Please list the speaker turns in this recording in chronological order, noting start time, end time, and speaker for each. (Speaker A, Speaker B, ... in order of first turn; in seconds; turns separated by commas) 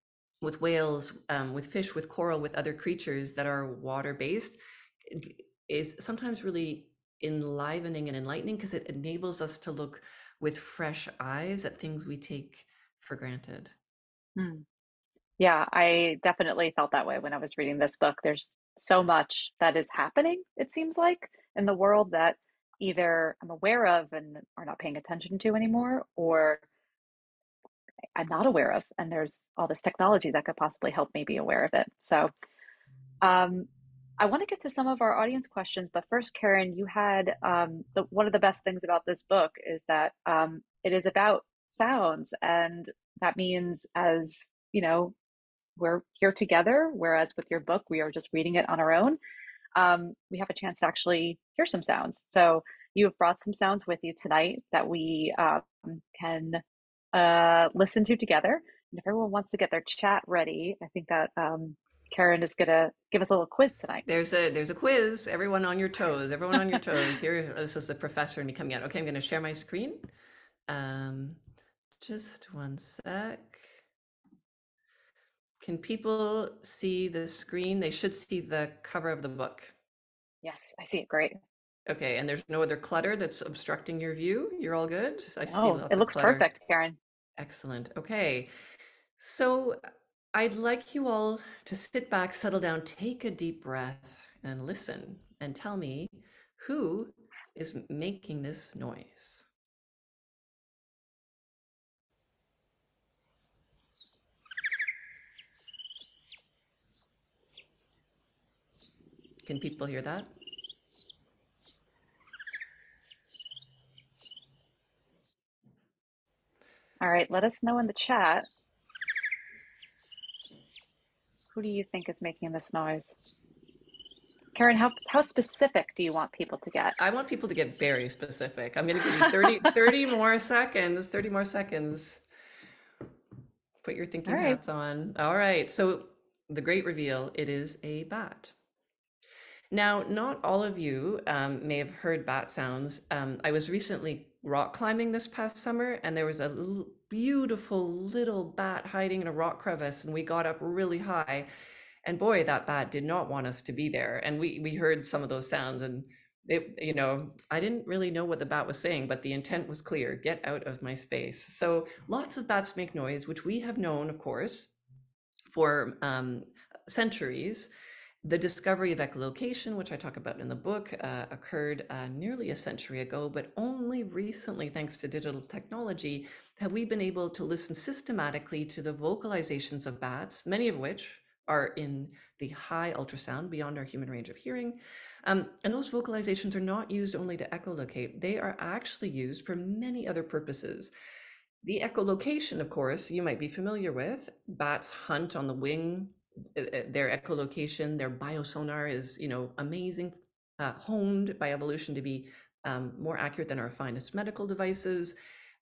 Speaker A: 0.4-13.7, Speaker B: 14.3-14.6, Speaker B: 15.4-26.6, Speaker B: 28.1-32.3, Speaker B: 33.2-33.7, Speaker B: 34.2-45.1, Speaker B: 45.8-49.2, Speaker B: 49.8-56.6, Speaker B: 57.1-64.0, Speaker A: 64.0-70.0, Speaker A: 70.7-71.4, Speaker A: 72.0-73.8, Speaker A: 75.6-79.7, Speaker B: 80.4-81.4, Speaker A: 81.9-86.5, Speaker B: 85.5-87.0, Speaker A: 87.4-88.5, Speaker A: 89.2-89.8, Speaker A: 90.3-99.5, Speaker A: 109.4-110.3, Speaker B: 117.0-118.5, Speaker B: 121.5-123.1, Speaker B: 124.5-126.9, Speaker A: 127.0-132.2, Speaker A: 133.8-138.5, Speaker B: 134.2-134.6, Speaker A: 139.7-151.5, Speaker A: 152.0-164.7, Speaker A: 165.5-167.7, Speaker A: 168.2-190.9, Speaker A: 191.6-205.1